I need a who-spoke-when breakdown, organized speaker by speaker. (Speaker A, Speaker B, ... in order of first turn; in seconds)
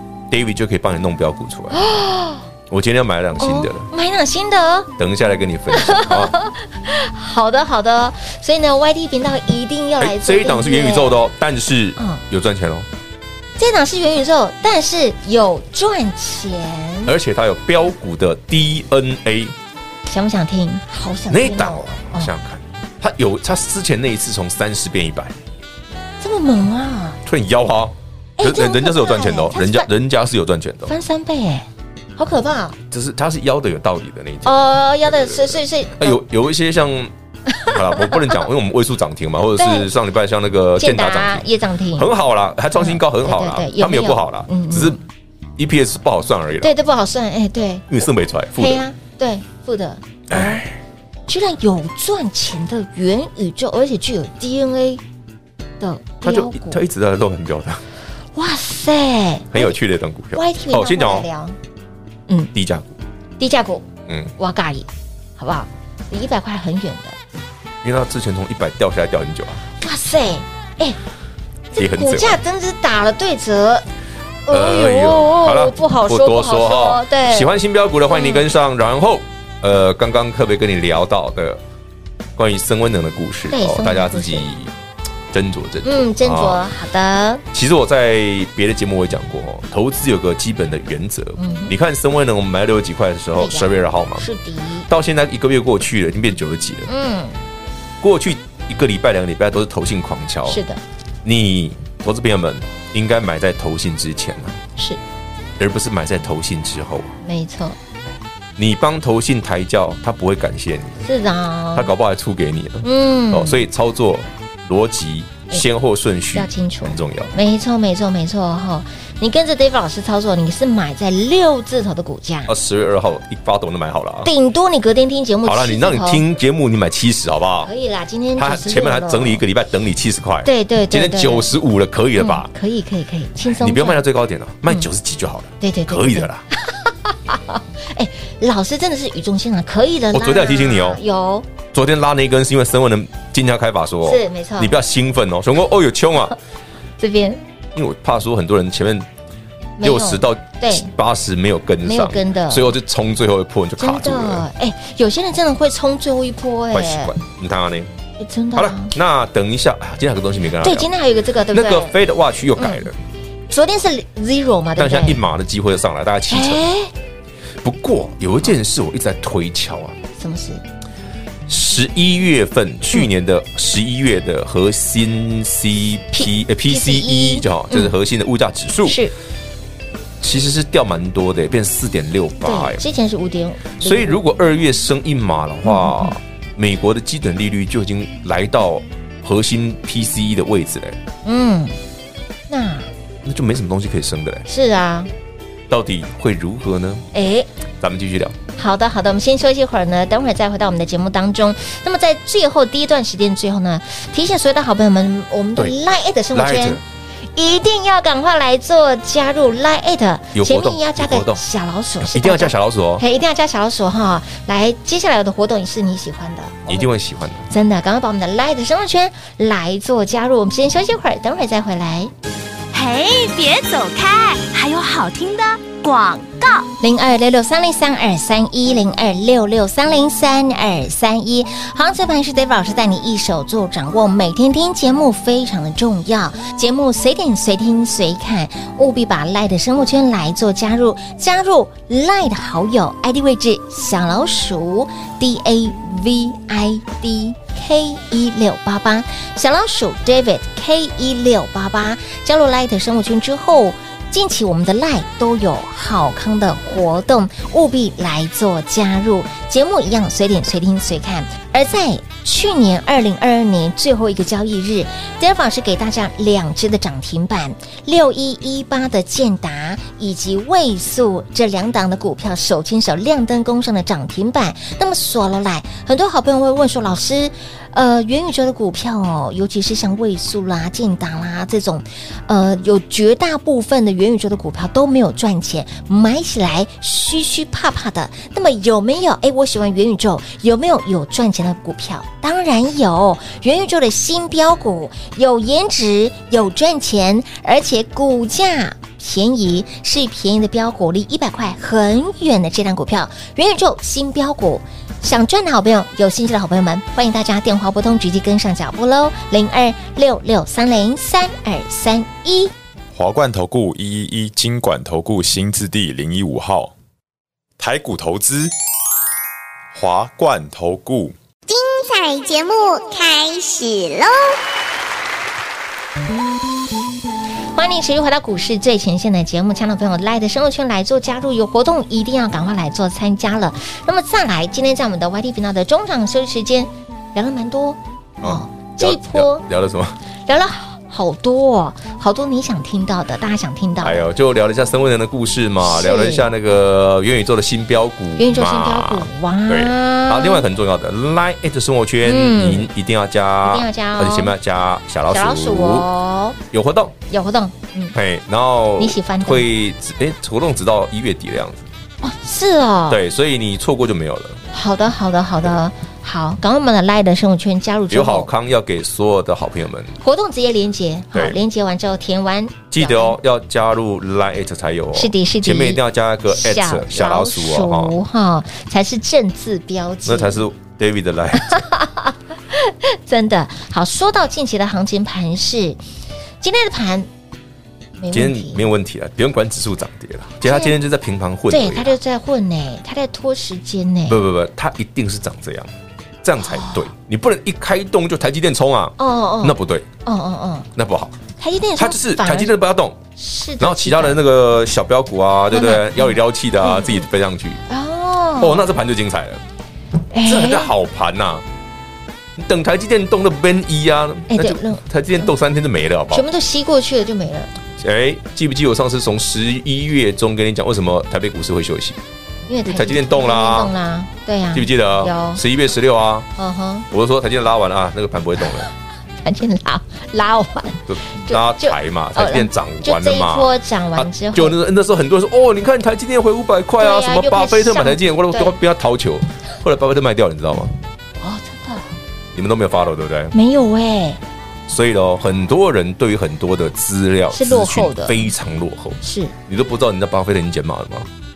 Speaker A: 0.3-1.8, 2.7-3.9, 5.0-6.3, 10.0-12.9, 17.1-19.5, 21.3-25.4, 27.2-30.9, 32.9-37.1, 37.7-45.0, 45.6-46.7, 47.9-48.8, 50.3-50.8, 56.2-57.8, 59.5-61.3, 62.5-62.9, 64.1-64.3, 67.8-69.6, 71.8-72.4, 74.5-81.6, 82.3-84.7, 85.3-86.6, 87.5-94.2, 94.9-96.9, 98.0-100.6, 101.2-104.6, 105.6-107.1, 108.6-111.0, 111.7-117.3, 122.5-124.3, 125.4-127.7, 128.4-132.5, 133.4-136.4, 140.1-141.0, 141.7-146.3, 147.7-149.1, 149.8-154.4, 156.7-157.9, 158.5-160.9, 161.5-162.9, 164.8-166.6, 167.6-170.0, 171.5-179.0, 180.2-182.8, 183.8-191.0, 193.2-194.4, 195.7-197.1, 197.8-198.4, 206.3-206.8, 210.3-211.4, 212.0-213.0, 216.7-217.4, 338.2-340.0, 343.8-355.9, 356.5-356.9, 357.9-361.7, 362.9-364.4, 367.9-370.0, 371.1-371.4, 372.7-378.0, 380.0-381.6, 388.1-392.0, 394.1-395.7, 396.2-399.9, 400.7-401.1, 401.8-403.0, 403.6-407.6, 408.4-409.4, 410.2-411.4, 412.4-416.2, 417.8-422.0, 422.6-423.7, 424.5-426.3, 426.9-428.7, 430.9-440.7, 442.3-443.3, 444.7-451.1
Speaker B: 1.7-2.5, 3.4-4.9, 5.7-11.2, 12.0-12.2, 13.6-17.1, 20.1-22.3, 26.2-27.2, 28.4-29.9, 30.9-32.8, 34.4-36.2, 37.5-38.4, 39.6-39.9, 40.8-42.1, 42.7-45.0, 46.6-47.9, 48.6-50.6, 51.3-55.0, 55.8-56.8, 58.3-59.8, 60.3-61.5, 63.4-63.9, 64.4-67.2, 69.8-71.0, 71.7-73.8, 74.5-77.6, 78.1-78.5, 83.5-84.5, 85.8-87.4, 91.4-91.7, 93.3-94.9, 96.9-97.4, 100.5-100.8, 107.2-107.8, 111.0-111.9, 112.8-113.6, 116.3-122.5, 124.2-126.2, 127.6-129.4, 130.4-131.5, 132.2-134.0, 135.6-141.5, 144.0-144.7, 147.0-147.4, 149.8-150.9, 151.8-152.7, 153.8-157.1, 158.2-158.9, 160.6-161.9, 162.6-162.9, 163.5-165.2, 166.3-166.9, 170.2-170.6, 176.1-177.9, 178.8-179.1, 182.4-184.2, 185.6-186.1, 191.2-191.8, 192.5-192.9, 194.5-195.1, 197.1-197.5, 198.6-206.8, 207.3-216.9, 217.5-222.1, 226.8-312.5, 327.5-339.4, 340.2-344.1, 345.6-346.3, 348.2-350.4, 352.0-352.7, 353.4-354.3, 355.1-356.4, 357.1-357.9, 358.8-359.4, 362.0-363.0, 364.5-368.3, 370.0-373.2, 374.9-380.4, 381.3-385.8, 386.4-387.1, 388.0-388.6, 390.4-390.8, 391.5-394.2, 396.4-396.9, 399.0-400.7, 401.4-402.5, 403.1-404.2, 405.5-407.1, 407.7-408.7, 410.1-410.7, 414.3-415.3, 416.1-417.6, 422.5-425.4, 426.4-426.9, 429.2-434.6, 436.8-438.6, 441.2-441.9, 443.3-444.2, 447.3-448.3, 449.0-449.3
Speaker C: 222.7-226.7
Speaker D: 312.9-316.7, 317.6-318.5, 319.7-321.1
Speaker E: 321.5-324.4